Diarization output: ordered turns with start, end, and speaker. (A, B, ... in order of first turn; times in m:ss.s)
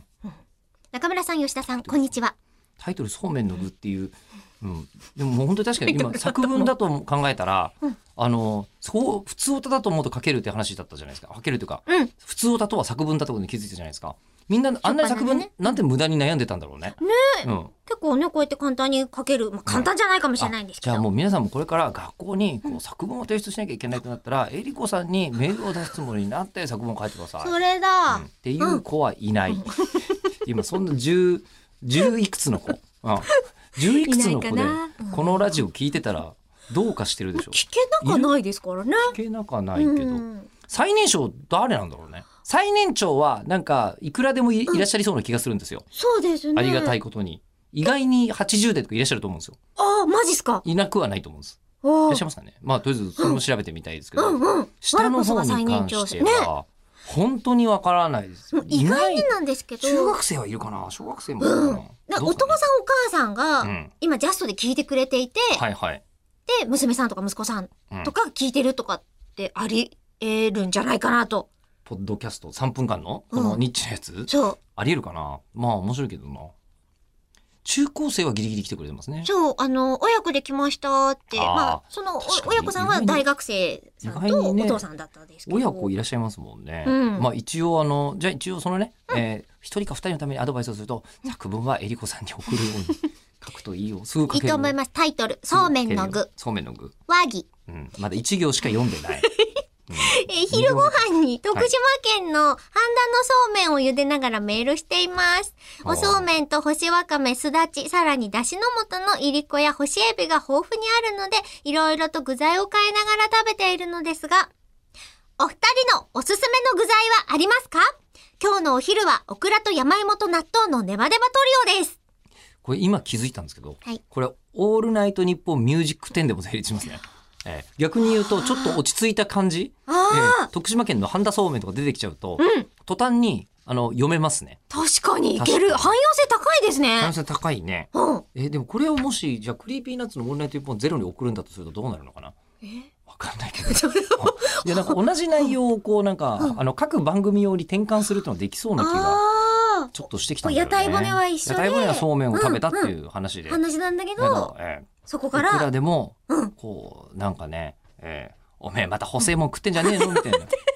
0:00.9-0:02.4 A
0:01.8-0:02.1 B
0:02.8-0:17.7 B
0:05.9-0:06.6 A
0:14.8-0:15.5 A
0:17.0-0:21.0 A
0:19.7-0:27.5 B
0:27.4-0:28.8 A
0:28.1-0:29.8 B
0:29.5-0:30.1 A
0:30.4-0:38.3 B
0:33.3-0:35.4 A
0:37.4-0:39.1 A
0:39.0-0:45.8 B
0:39.8-0:40.5 A
0:45.9-0:47.0 A
0:46.5-0:49.6 B
0:49.8-0:50.6 A
0:50.6-1:02.6 B
0:51.8-0:52.2 A
0:54.2-0:56.5 A
0:58.5-1:00.2 A
1:01.4-1:05.6 A
1:03.6-1:03.9 B
1:05.6-1:06.0 B
1:06.5-1:11.5 A
1:11.8-1:16.5 B
1:13.3-1:13.6 A
1:14.3-1:14.6 A
1:17.6-1:19.3 B
1:19.2-1:25.9 A
1:21.3-1:23.2 B
1:24.0-1:24.8 B
1:25.5-1:34.8 B
1:26.9-1:27.3 A
1:34.3-1:36.3 A
1:35.5-1:36.9 B
1:37.1-1:37.5 A
1:37.7-1:39.3 B
1:38.9-1:54.5 A
1:39.9-1:41.0 B
1:45.8-1:46.3 B
1:55.4-1:57.8 A
1:58.4-2:02.0 A
2:02.6-2:14.6 B
2:08.3-2:08.8 A
2:09.9-2:10.5 A
2:12.4-2:12.7 A
2:14.7-2:17.1 A
2:15.4-2:16.0 B
2:17.0-2:22.3 B
2:17.9-2:18.2 A
2:23.0-2:29.2 B
2:23.6-2:25.5 A
2:28.8-2:32.9 A
2:29.9-2:33.6 B
2:33.5-2:34.5 A
2:34.2-2:40.5 B
2:35.0-2:35.7 A
2:39.8-2:40.4 A